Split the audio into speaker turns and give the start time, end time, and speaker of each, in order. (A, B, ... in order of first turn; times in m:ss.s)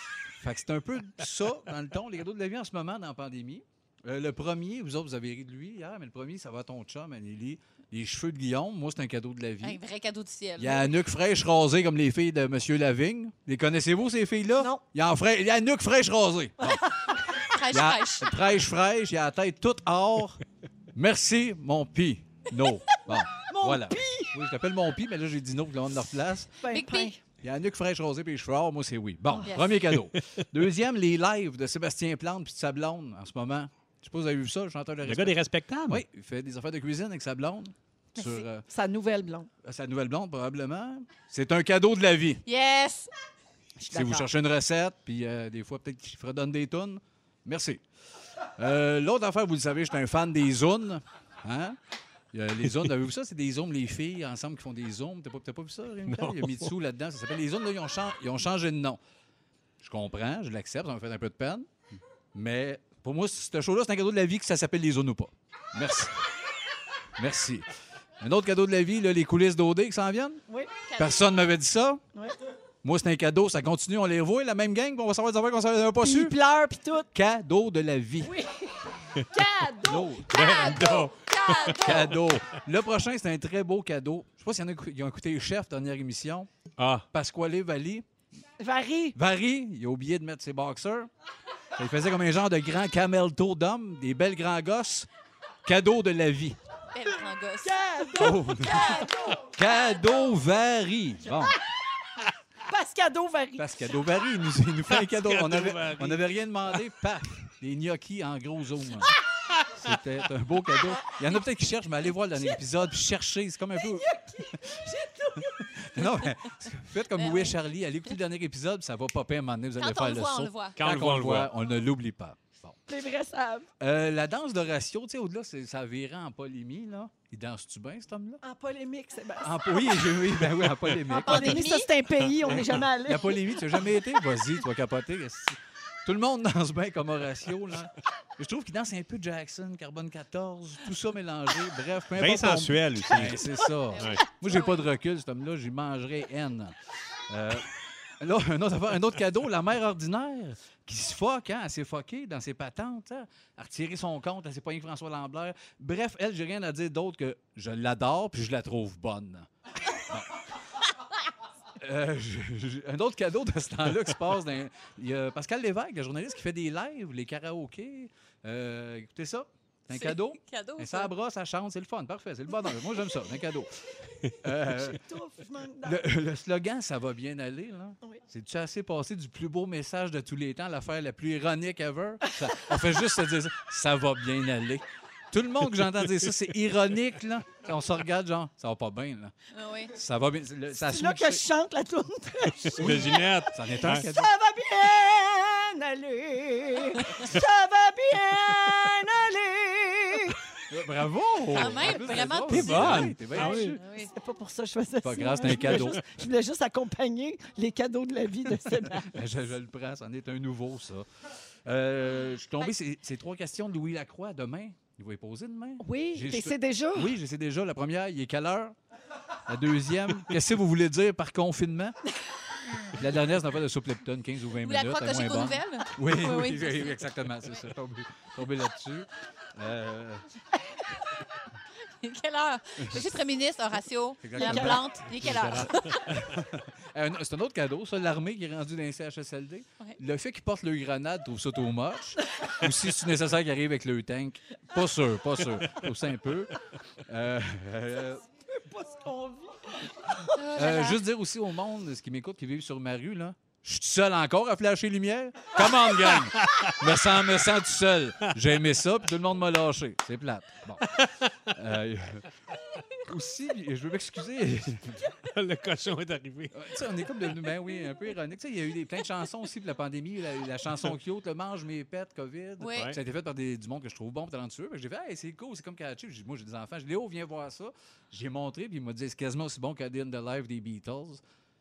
0:00.4-0:09.8 A
0:09.6-0:10.9 B
0:10.6-0:17.1 A
0:17.4-0:18.3 B
0:17.7-0:20.4 A
0:20.9-0:26.5 A
0:23.1-0:24.3 C
0:26.6-0:27.2 C
0:26.7-0:27.2 B
0:27.4-0:38.7 A
0:29.4-0:29.7 B
0:35.0-0:36.0 D
0:38.2-0:39.5 C
0:39.6-0:42.4 A
0:42.4-0:43.1 B
0:43.8-0:44.3 C
0:43.9-0:47.8 A
0:48.6-0:51.8 A
0:52.3-0:59.0 A
0:56.1-0:56.7 D
0:59.8-1:01.7 A
1:02.3-1:06.2 A
1:07.2-1:10.4 A
1:10.5-1:10.8 C
1:11.0-1:12.0 A
1:12.8-1:16.4 A
1:16.0-1:17.1 C
1:17.1-1:18.4 A
1:18.2-1:20.8 C
1:19.8-1:20.3 A
1:20.3-1:22.2 B
1:20.3-1:21.9 D
1:21.8-1:26.5 A
1:26.8-1:27.0 D
1:27.1-1:28.0 A
1:28.6-1:29.2 C
1:29.1-1:31.1 A
1:31.7-1:35.1 A
1:35.6-1:36.6 A
1:36.9-1:40.3 B
1:37.6-1:39.5 C
1:38.1-1:41.6 A
1:42.7-1:43.8 C
1:43.6-1:49.2 A
1:44.9-1:46.2 D
1:49.8-1:54.8 A
1:53.8-1:56.0 C
1:55.4-2:02.8 A
1:57.2-1:57.5 B
1:59.8-2:00.8 B
2:00.8-2:01.5 D
2:02.9-2:03.7 C
2:03.8-2:08.4 A
2:08.4-2:10.2 C
2:09.4-2:11.7 A
2:11.1-2:13.7 C
2:11.3-2:11.9 B
2:13.0-2:26.8 A
2:22.2-2:23.4 D
2:24.0-2:24.8 B
2:24.0-2:24.2 D
2:27.3-2:40.4 A
2:41.8-2:55.0 A
2:49.9-2:51.1 B
2:54.6-2:56.0 C
2:55.8-3:09.3 A
3:09.5-3:09.9 B
3:09.9-3:11.4 A
3:10.7-3:20.4 C
3:12.6-3:14.1 D
3:12.7-3:14.3 A
3:20.7-3:23.8 A
3:21.5-3:24.1 B
3:22.5-3:23.8 D
3:23.4-3:29.1 C
3:25.0-3:26.0 A
3:28.8-3:31.0 A
3:31.6-3:38.8 A
3:35.8-3:37.1 C
3:39.5-3:42.0 A
3:42.9-3:50.2 A
3:44.6-3:46.9 B
3:52.0-3:56.2 B
3:52.8-3:53.0 A
3:54.2-4:08.2 A
3:55.1-3:56.4 D
4:08.5-4:10.3 C
4:10.3-4:11.0 B
4:10.5-4:22.3 A
4:16.4-4:16.8 D
4:20.8-4:21.2 D
4:23.0-4:25.0 A
4:25.3-4:26.7 D
4:26.5-4:41.2 A
4:32.6-4:32.9 B